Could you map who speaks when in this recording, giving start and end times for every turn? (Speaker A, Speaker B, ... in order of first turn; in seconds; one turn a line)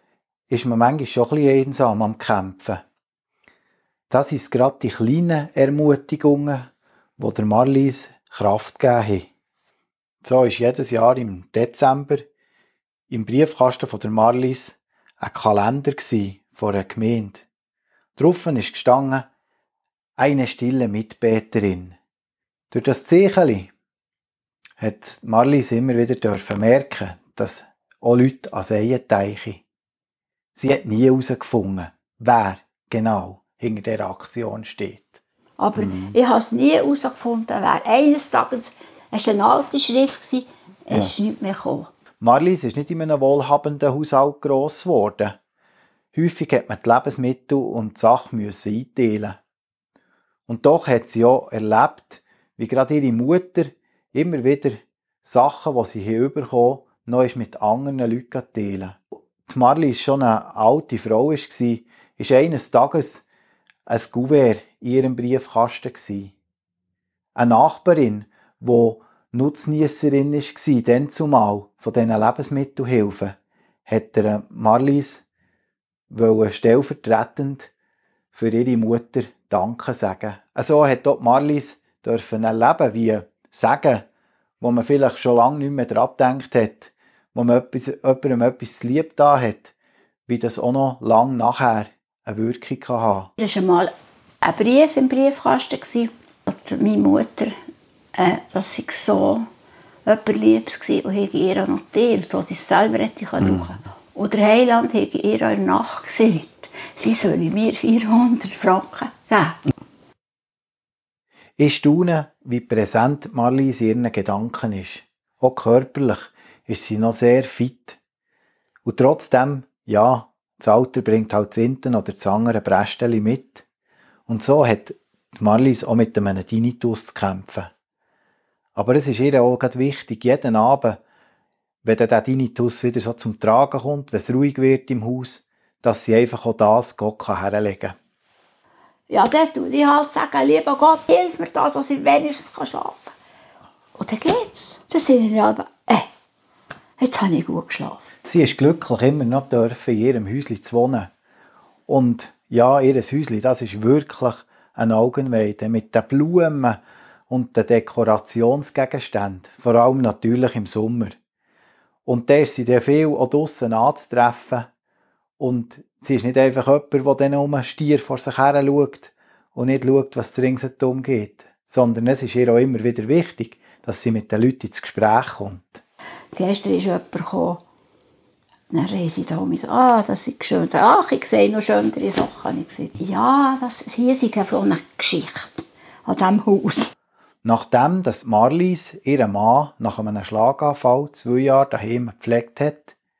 Speaker A: 0.5-2.8
Speaker A: 4.1-6.7
Speaker A: 7.2-9.3
Speaker A: 10.2-12.3
Speaker A: 13.1-17.4
Speaker A: 18.2-19.3
Speaker A: 20.2-22.0
Speaker A: 22.7-23.7
Speaker A: 24.8-29.6
Speaker A: 30.6-35.2
Speaker B: 35.6-41.9
Speaker A: 35.8-36.1
Speaker A: 42.2-45.4
Speaker A: 46.1-49.4
Speaker A: 50.5-63.2
Speaker A: 63.9-66.3
Speaker A: 67.4-73.4
Speaker A: 73.9-75.2
Speaker A: 76.1-77.7
Speaker A: 78.3-84.0
Speaker A: 84.6-89.7
Speaker A: 90.3-93.3
Speaker B: 93.4-97.6
Speaker B: 98.2-99.5
Speaker B: 100.1-109.6
Speaker A: 111.6-118.0
Speaker A: 118.9-123.6
Speaker A: 124.3-127.7
Speaker A: 128.8-131.0
Speaker A: 131.8-137.9
Speaker B: 139.1-143.1
Speaker B: 144.0-146.1
Speaker B: 147.0-148.0
Speaker A: 148.2-151.1
Speaker A: 151.9-156.8
Speaker A: 157.3-161.2
Speaker A: 162.1-164.7
Speaker A: 165.4-175.8
Speaker B: 176.3-177.6
Speaker B: 178.7-186.9
Speaker A: 187.4-192.9